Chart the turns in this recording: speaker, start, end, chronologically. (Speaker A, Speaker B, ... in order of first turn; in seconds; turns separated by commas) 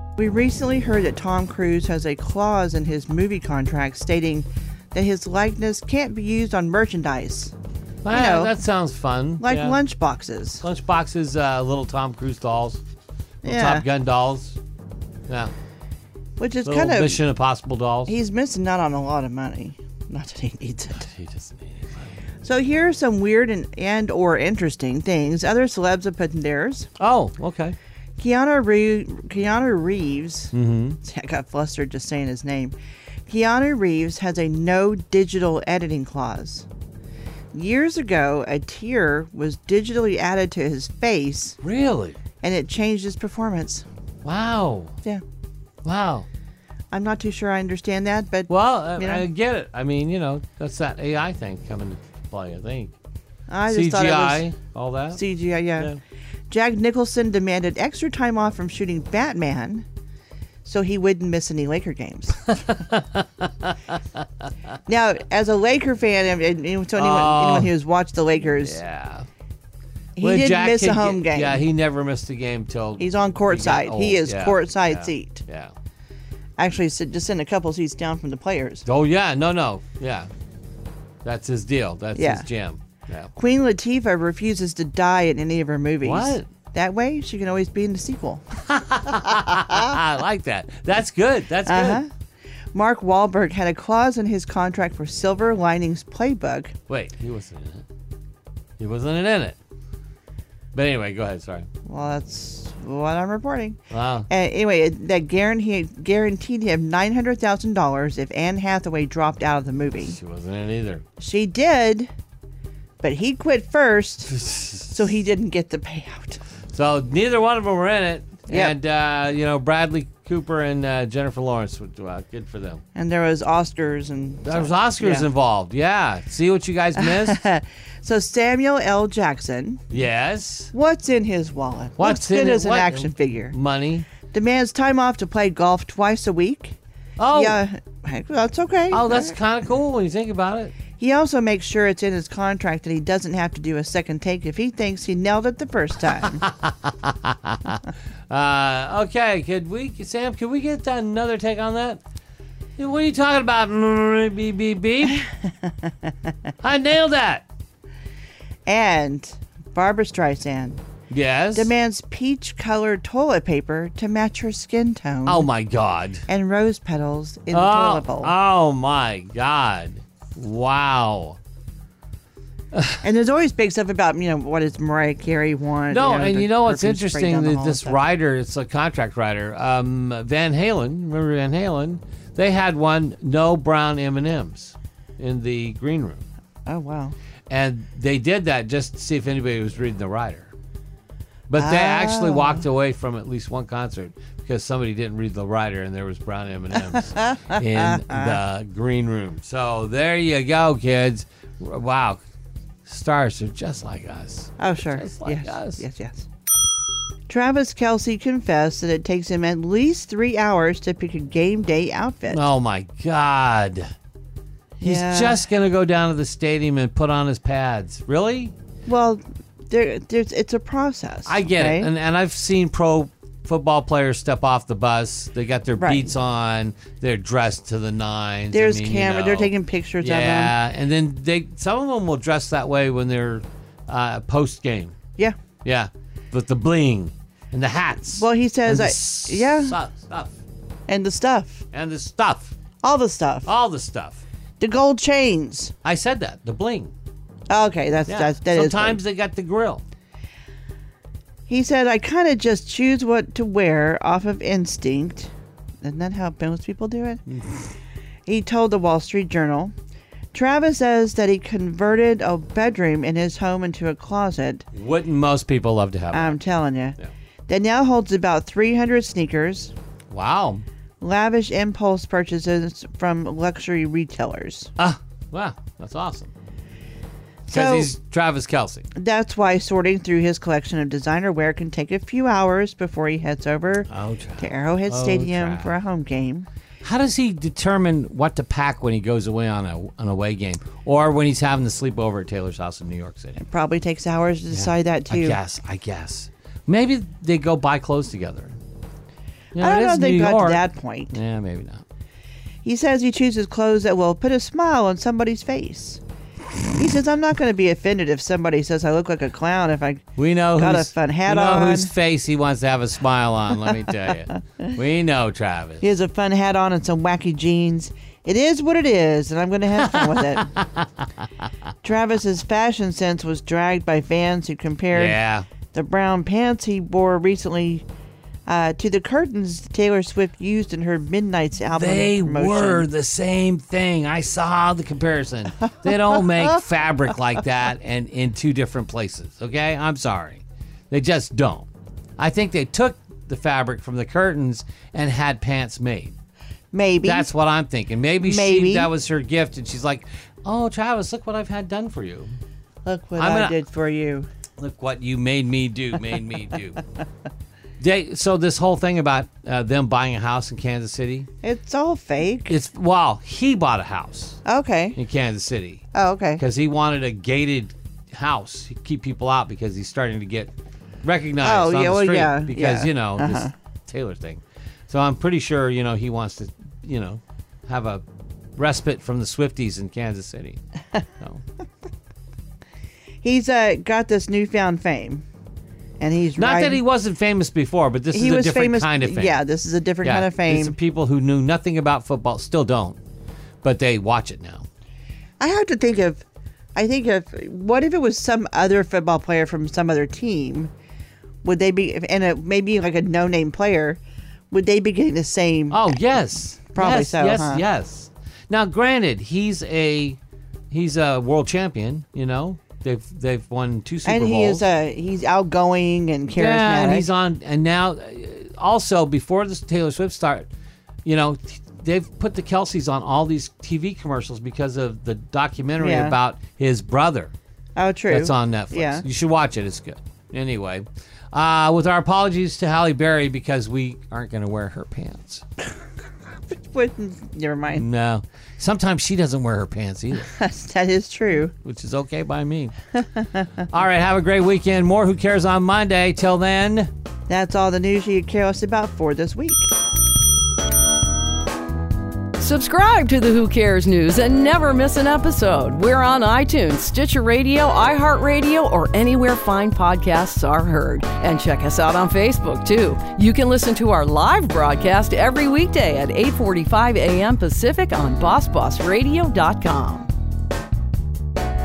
Speaker A: 0.2-7.5, Speaker B: 8.0-9.8, Speaker A: 8.1-8.6, Speaker A: 9.4-10.6, Speaker B: 10.6-12.8, Speaker A: 13.4-13.8, Speaker B: 13.4-14.6, Speaker B: 15.3-15.5, Speaker A: 16.4-17.2, Speaker B: 16.6-18.1, Speaker A: 18.1-21.1, Speaker B: 21.1-22.2, Speaker A: 22.4-26.9, Speaker B: 27.0-27.8, Speaker A: 28.2-32.8, Speaker B: 30.5-31.0, Speaker A: 33.3-36.6, Speaker A: 37.5-41.6, Speaker B: 41.6-42.2, Speaker A: 42.4-43.8, Speaker B: 44.2-45.0, Speaker B: 45.8-46.2, Speaker A: 46.9-49.2, Speaker B: 48.5-52.9, Speaker A: 53.5-54.4, Speaker B: 53.7-55.2, Speaker A: 55.1-55.9, Speaker A: 56.5-59.8, Speaker A: 60.6-62.5, Speaker B: 62.5-64.0, Speaker A: 64.9-68.8, Speaker B: 66.9-67.7, Speaker B: 68.6-69.2, Speaker A: 70.2-71.6, Speaker B: 70.2-75.7, Speaker A: 73.0-75.4, Speaker A: 76.6-78.8, Speaker B: 78.8-80.3, Speaker B: 81.2-83.3, Speaker A: 82.1-82.5, Speaker A: 83.3-88.4, Speaker B: 86.0-86.5, Speaker B: 88.7-92.0, Speaker A: 89.5-90.0, Speaker A: 91.7-92.1, Speaker A: 92.7-96.7, Speaker B: 96.9-97.8, Speaker B: 98.8-99.6, Speaker B: 100.7-101.7, Speaker A: 101.8-103.8, Speaker B: 103.9-104.3, Speaker A: 104.3-110.2, Speaker B: 110.0-111.0, Speaker A: 111.2-112.1, Speaker A: 113.0-114.3, Speaker B: 114.3-114.9, Speaker A: 114.8-116.4, Speaker B: 116.7-122.8, Speaker A: 118.5-118.7, Speaker A: 122.9-125.3, Speaker B: 124.4-127.4, Speaker A: 127.0-129.8, Speaker B: 129.9-130.7, Speaker A: 130.7-133.5, Speaker B: 132.0-134.1, Speaker A: 134.3-136.8, Speaker B: 137.2-137.6, Speaker A: 137.3-139.4, Speaker B: 138.9-140.8, Speaker A: 141.0-146.4, Speaker B: 146.4-152.0, Speaker B: 152.8-155.2, Speaker B: 156.6-157.4, Speaker A: 158.7-160.8, Speaker B: 161.1-161.7, Speaker A: 161.5-165.5, Speaker B: 165.2-166.2, Speaker A: 166.3-168.3, Speaker B: 167.5-171.4, Speaker B: 172.7-173.0, Speaker A: 173.0-178.0, Speaker B: 175.9-186.2, Speaker A: 186.7-187.1, Speaker B: 187.5-190.5, Speaker B: 191.5-202.2, Speaker A: 191.6-192.6, Speaker A: 196.9-198.4, Speaker B: 202.8-205.8, Speaker A: 204.6-206.2, Speaker A: 207.3-212.4, Speaker B: 212.3-213.9, Speaker A: 214.8-215.4, Speaker B: 214.8-218.5, Speaker A: 218.8-221.9, Speaker B: 221.2-234.9, Speaker A: 225.8-226.1, Speaker A: 228.5-230.5, Speaker B: 235.6-240.4, Speaker A: 238.1-239.8, Speaker A: 240.9-241.6, Speaker B: 241.7-242.5, Speaker A: 242.8-243.5, Speaker B: 243.4-244.2, Speaker A: 244.6-245.7, Speaker B: 245.8-246.9, Speaker A: 247.5-249.0, Speaker B: 248.1-249.8, Speaker A: 251.5-255.3, Speaker A: 255.8-257.2, Speaker A: 258.2-259.7, Speaker A: 260.3-264.6, Speaker B: 264.7-266.4, Speaker A: 266.1-267.0, Speaker A: 267.5-269.7, Speaker B: 270.1-270.6, Speaker A: 271.0-274.7, Speaker B: 274.8-276.3, Speaker A: 277.5-277.9, Speaker B: 277.5-278.9, Speaker A: 278.9-286.5, Speaker B: 283.9-285.7, Speaker B: 286.8-293.4, Speaker A: 293.4-295.4, Speaker B: 294.5-298.6, Speaker B: 299.5-301.8, Speaker A: 299.6-301.1, Speaker A: 302.6-306.0, Speaker A: 306.7-311.9, Speaker B: 310.2-315.8, Speaker A: 315.8-320.5, Speaker B: 319.8-320.9, Speaker A: 321.8-325.2, Speaker B: 324.9-325.5, Speaker A: 325.7-327.8, Speaker A: 328.4-332.9, Speaker B: 331.7-341.7, Speaker B: 342.2-346.1, Speaker A: 346.7-347.3, Speaker B: 347.0-352.4, Speaker A: 348.2-348.9, Speaker A: 352.8-354.3, Speaker B: 353.2-353.6, Speaker B: 354.6-356.8, Speaker B: 357.8-361.3, Speaker A: 361.4-362.5, Speaker B: 362.5-364.4, Speaker A: 364.4-365.0, Speaker B: 364.9-365.8, Speaker A: 365.9-366.4, Speaker B: 366.4-370.5, Speaker B: 371.0-378.0, Speaker A: 371.4-373.5, Speaker B: 378.6-380.6, Speaker B: 381.2-381.4, Speaker A: 383.2-385.2, Speaker A: 386.0-386.8, Speaker B: 386.4-389.4, Speaker A: 388.1-390.8, Speaker B: 390.0-393.0, Speaker B: 393.6-394.6, Speaker A: 395.4-400.7, Speaker A: 401.4-404.0, Speaker A: 404.5-406.0, Speaker B: 405.7-410.2, Speaker A: 406.7-407.6, Speaker B: 410.7-414.6, Speaker A: 414.0-417.1, Speaker B: 416.3-420.5, Speaker B: 421.0-427.3, Speaker A: 425.8-426.1, Speaker A: 427.8-429.0, Speaker B: 428.1-435.4, Speaker A: 436.5-437.8, Speaker B: 437.7-440.3, Speaker A: 440.3-441.5, Speaker B: 441.6-442.8, Speaker B: 443.6-446.9, Speaker A: 447.3-449.7, Speaker C: 452.4-470.1